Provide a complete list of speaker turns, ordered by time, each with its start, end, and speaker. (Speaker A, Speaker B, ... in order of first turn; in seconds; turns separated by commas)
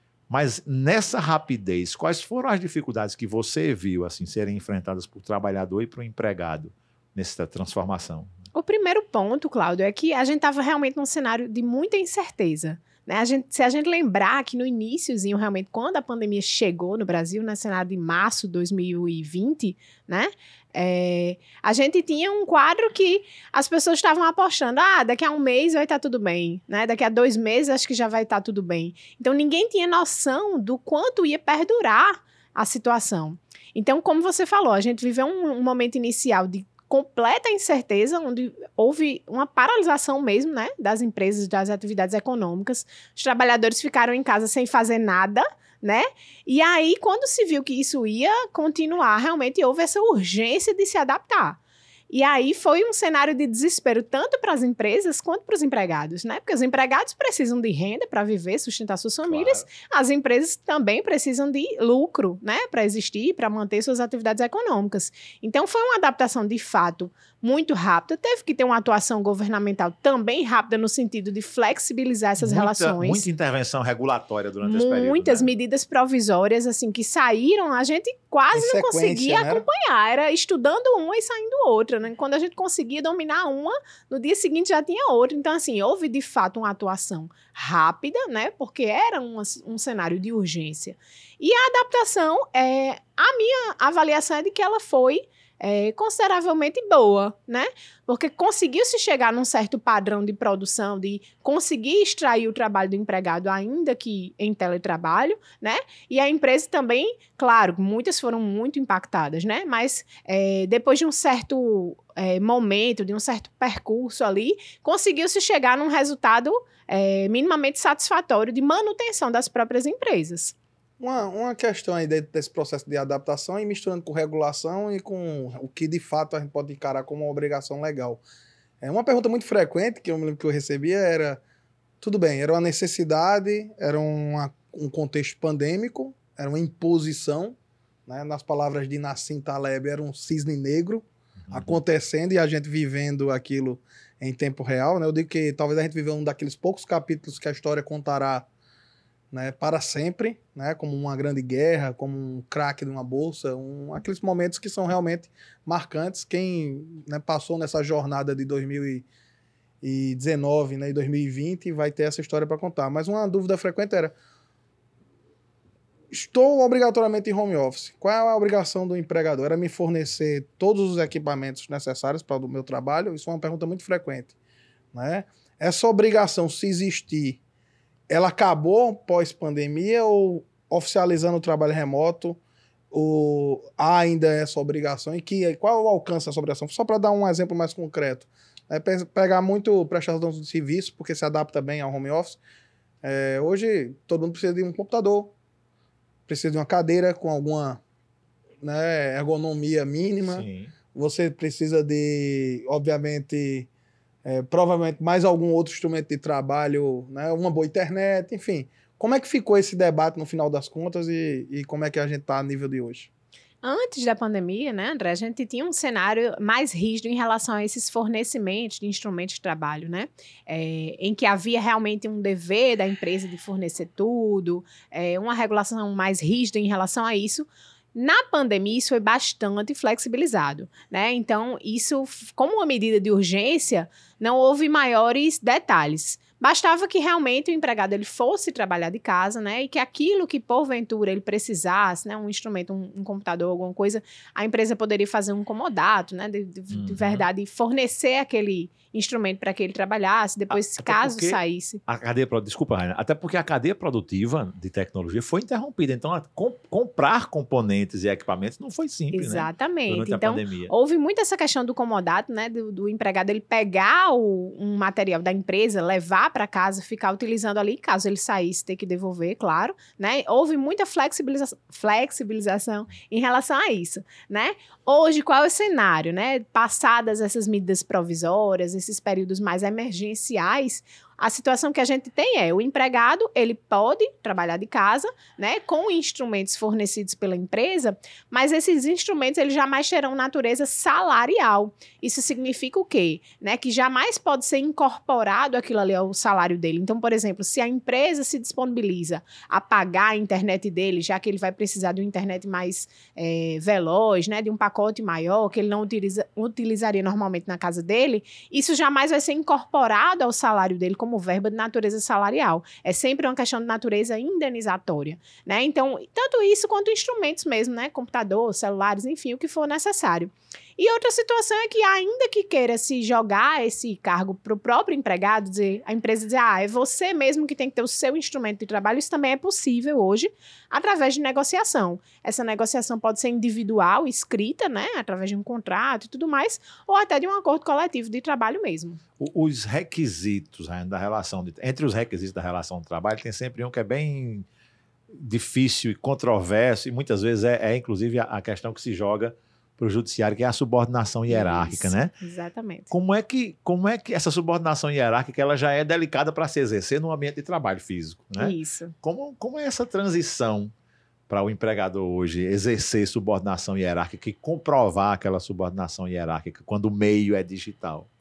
Speaker A: 0.3-8.3, Speaker B: 8.6-51.6, Speaker B: 52.1-73.2, Speaker A: 59.3-59.6, Speaker A: 72.4-75.5, Speaker B: 74.6-120.6, Speaker C: 78.5-79.7, Speaker C: 121.0-128.2, Speaker C: 128.8-131.4, Speaker C: 132.0-137.6, Speaker C: 138.1-148.5, Speaker A: 141.5-141.8, Speaker C: 149.3-159.1, Speaker C: 159.8-164.1, Speaker C: 166.1-174.3, Speaker C: 174.9-177.4, Speaker C: 178.1-182.4, Speaker C: 182.9-192.4, Speaker C: 193.0-195.3, Speaker C: 196.3-197.8, Speaker C: 198.6-203.7, Speaker A: 200.3-200.7, Speaker C: 204.2-213.1, Speaker B: 213.6-251.8, Speaker A: 246.7-247.3, Speaker A: 250.5-260.7, Speaker B: 259.1-339.0, Speaker A: 339.2-344.5, Speaker A: 345.1-352.1, Speaker B: 351.3-352.9, Speaker A: 352.9-360.7, Speaker B: 358.4-358.9, Speaker A: 361.3-368.1